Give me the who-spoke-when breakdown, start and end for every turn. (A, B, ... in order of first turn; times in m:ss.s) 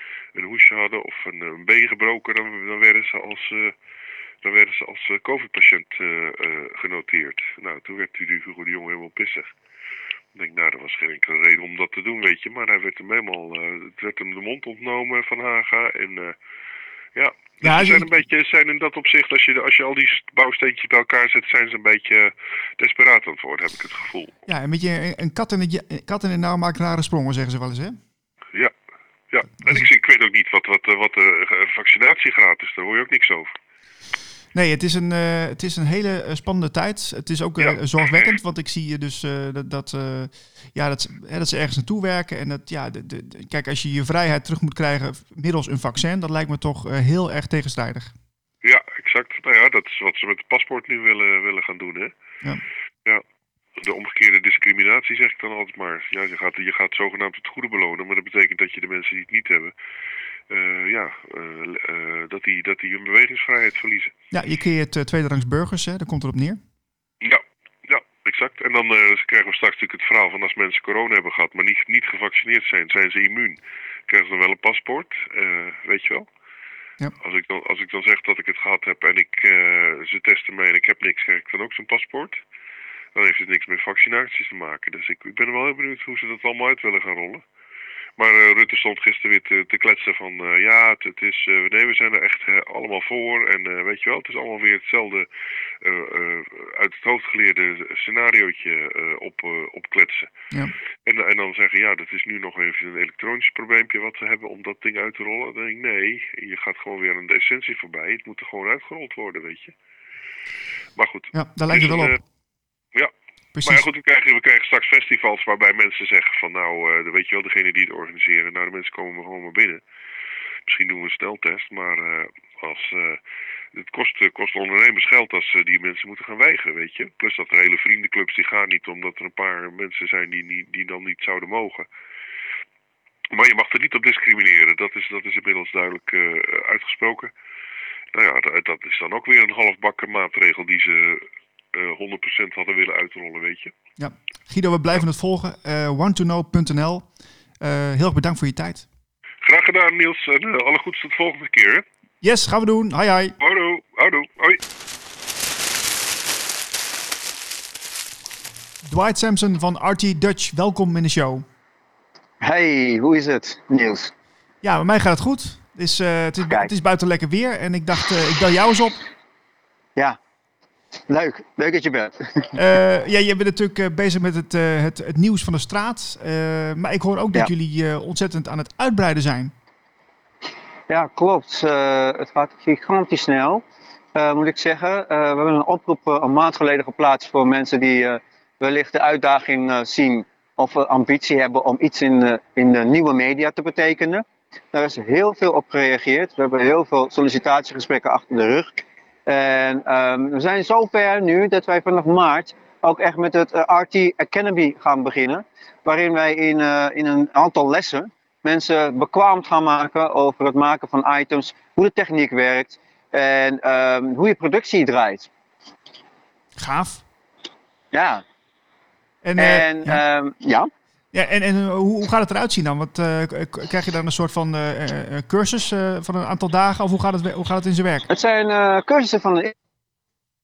0:00.4-0:03.7 A
0:04.4-0:09.5 A
0:10.4-0:16.4 A
0:17.2-0:24.3 A
0:17.6-0:18.1 B
0:24.5-0:28.0 B
0:29.3-0:33.5 A
0:34.5-0:48.1 B
0:48.6-0:52.1 A
0:53.8-0:59.7 A
1:00.5-1:04.1 A
1:04.3-1:06.6 B
1:07.2-1:16.3 A
1:17.2-1:22.4 A
1:23.2-1:27.4 A
1:28.2-1:35.3 A
1:35.8-1:40.3 A
1:41.1-1:49.7 A
1:51.0-1:52.2 A
1:51.3-1:52.2 B
1:53.6-1:53.8 B
1:53.6-1:59.8 A
2:00.7-2:03.2 A
2:03.8-2:11.9 A
2:13.3-2:17.3 A
2:18.1-2:23.7 A
2:24.0-2:27.1 B
2:27.6-2:28.9 B
2:29.4-2:31.8 A
2:32.2-2:33.4 B
2:33.4-2:34.6 A
2:38.8-2:41.4 B
2:42.4-2:44.1 C
2:44.6-2:49.0 B
2:46.5-2:46.7 C
2:51.1-2:52.5 C
2:52.5-2:59.5 B
3:00.9-3:03.6 C
3:04.2-3:35.3 C
3:36.6-3:37.0 B
3:37.9-3:38.2 C
3:39.2-3:40.0 B
3:39.4-3:40.7 C
3:41.1-3:48.1 B
3:48.1-3:49.5 C